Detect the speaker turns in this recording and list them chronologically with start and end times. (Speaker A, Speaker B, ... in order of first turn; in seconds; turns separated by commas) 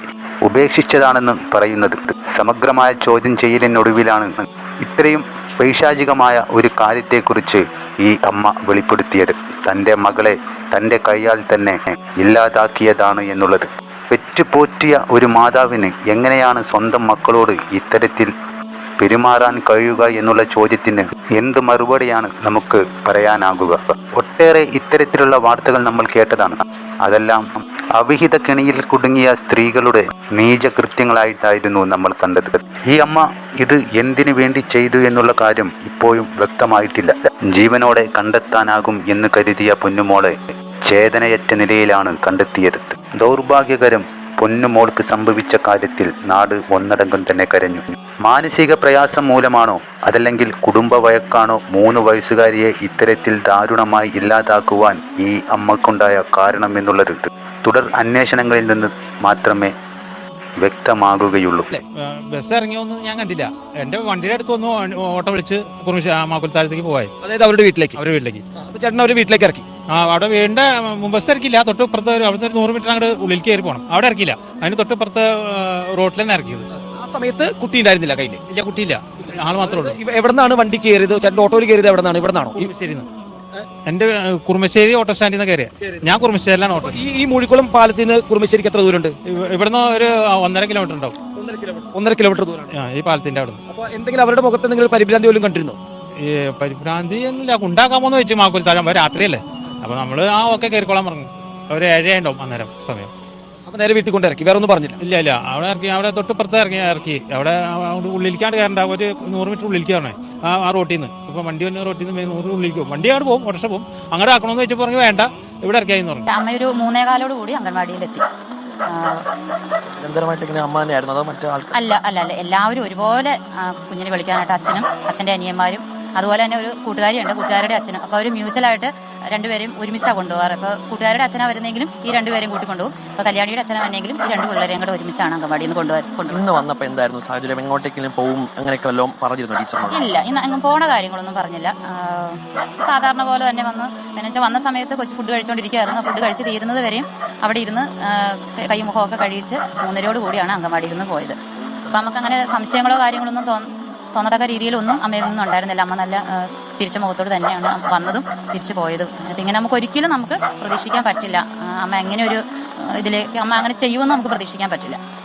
Speaker A: 0.5-18.3, Speaker A: 19.0-27.4, Speaker A: 27.9-40.3, Speaker A: 40.9-59.7, Speaker A: 60.6-61.7, Speaker B: 62.0-67.1, Speaker C: 67.2-68.0, Speaker B: 68.0-68.4, Speaker C: 68.6-69.7, Speaker B: 69.9-76.7, Speaker C: 76.7-78.4, Speaker B: 78.5-80.0, Speaker C: 79.6-82.7, Speaker B: 82.6-83.1, Speaker B: 83.8-87.0, Speaker C: 85.8-86.1, Speaker C: 86.8-89.2, Speaker B: 89.3-91.2, Speaker C: 91.3-92.7, Speaker B: 92.7-93.6, Speaker C: 93.7-95.8, Speaker B: 96.2-103.1, Speaker C: 103.7-105.0, Speaker B: 105.0-116.3, Speaker D: 116.3-118.3, Speaker D: 118.9-119.3, Speaker E: 119.9-121.7, Speaker D: 121.7-136.4, Speaker E: 136.3-140.0, Speaker D: 139.9-151.4, Speaker D: 151.9-165.0